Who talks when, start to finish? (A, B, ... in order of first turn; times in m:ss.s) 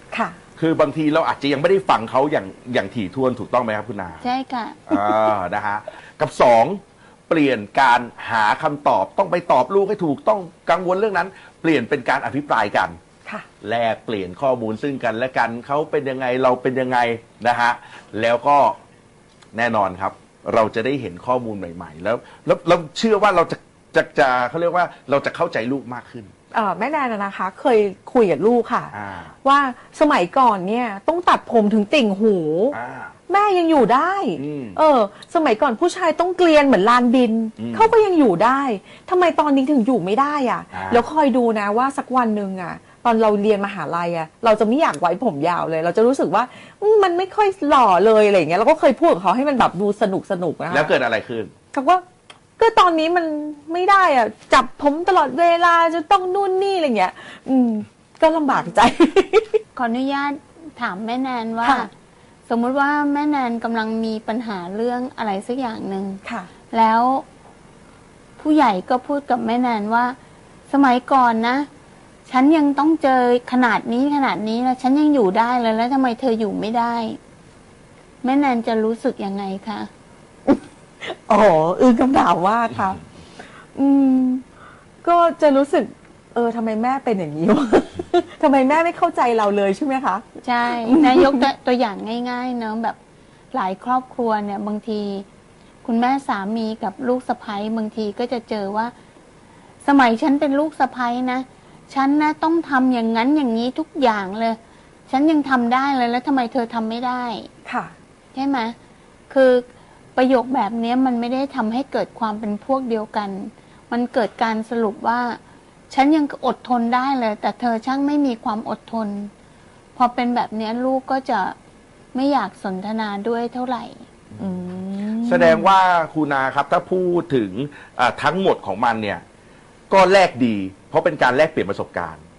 0:00.1-0:00.4 A
0:00.6-0:04.2 B
0:04.2-0:05.0 C
0:04.9-0:13.0 B
0:13.6-0:18.8 B
0:19.5-0:26.3 B
0:26.5-0:28.9 A
0:28.9-0:29.3 B
0:29.4-0:32.8 A
0:32.7-0:33.1 B
0:33.3-0:50.9 A
0:34.4-0:34.8 B
0:37.6-0:38.0 B
0:40.7-0:41.0 B
0:50.7-0:51.5 B
0:51.7-0:52.0 A
0:52.6-0:59.6 A
0:59.8-1:01.9 C
1:01.6-1:01.9 A
1:02.5-1:07.2 C
1:06.2-1:06.5 A
1:08.4-1:10.2 C
1:10.7-1:11.7 C
1:12.2-1:17.2 C
1:18.2-1:19.9 C
1:20.5-1:23.0 A
1:23.8-1:24.4 A
1:25.0-1:31.4 A
1:30.4-1:33.0 C
1:33.5-1:35.2 C
1:35.8-1:38.9 C
1:39.8-1:47.5 C
1:47.6-1:48.0 A
1:48.3-1:48.8 C
1:49.3-1:59.3 C
2:00.0-2:01.6 C
2:02.1-2:04.0 C
2:04.4-2:05.7 A
2:05.2-2:09.2 B
2:09.9-2:12.2 B